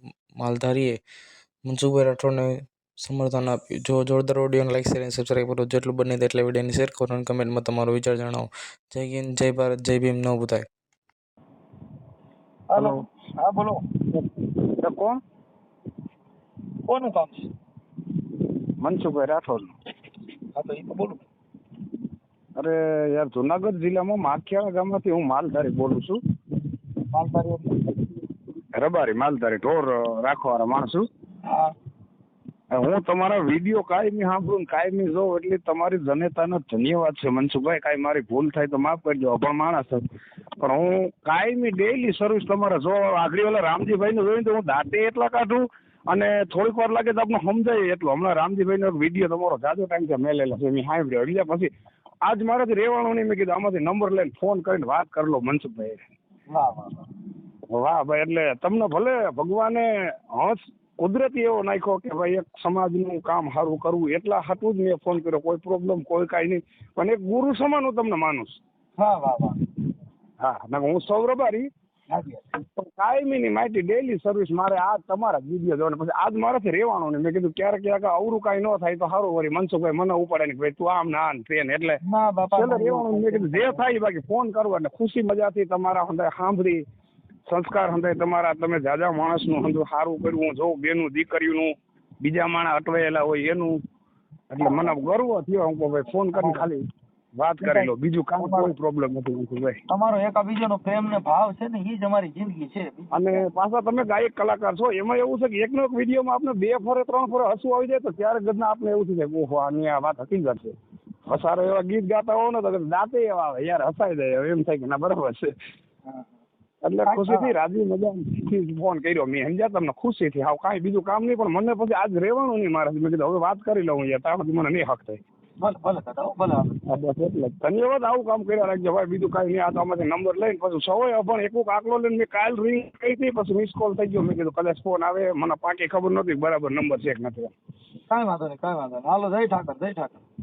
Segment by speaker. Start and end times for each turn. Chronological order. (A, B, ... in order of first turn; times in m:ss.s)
0:00.4-0:00.9 A
0:01.6-0:10.6 A
0:12.7-0:13.8 B
0:14.1-0:15.2 C
0:16.9-0:17.5 B
0:18.8-0:19.7 C
0:20.5-0:21.2 B
0:22.6-0:26.2 C
0:27.1-0:27.8 B
0:28.8-0:31.0 C
0:31.4-0:31.7 B
0:32.7-0:40.0 C
0:40.6-0:51.7 C
0:52.2-0:56.0 C
0:56.5-0:57.1 B
0:57.7-1:08.6 C
1:09.0-1:09.6 B
1:10.4-1:11.7 C
1:12.1-1:12.4 B
1:12.6-1:22.0 C
1:22.0-1:23.8 B
1:22.5-1:26.8 C
1:27.5-1:33.8 C
1:34.5-1:36.8 C
1:34.6-1:35.0 B
1:36.3-1:36.7 B
1:37.4-1:39.8 C
1:37.6-1:38.7 B
1:39.9-1:43.4 B
1:43.1-1:50.7 C
1:51.3-1:55.5 C
1:56.1-1:56.3 B
1:56.8-2:05.2 C
1:57.0-1:57.5 B
2:05.6-2:06.8 B
2:06.8-2:17.5 C
2:18.1-2:20.2 B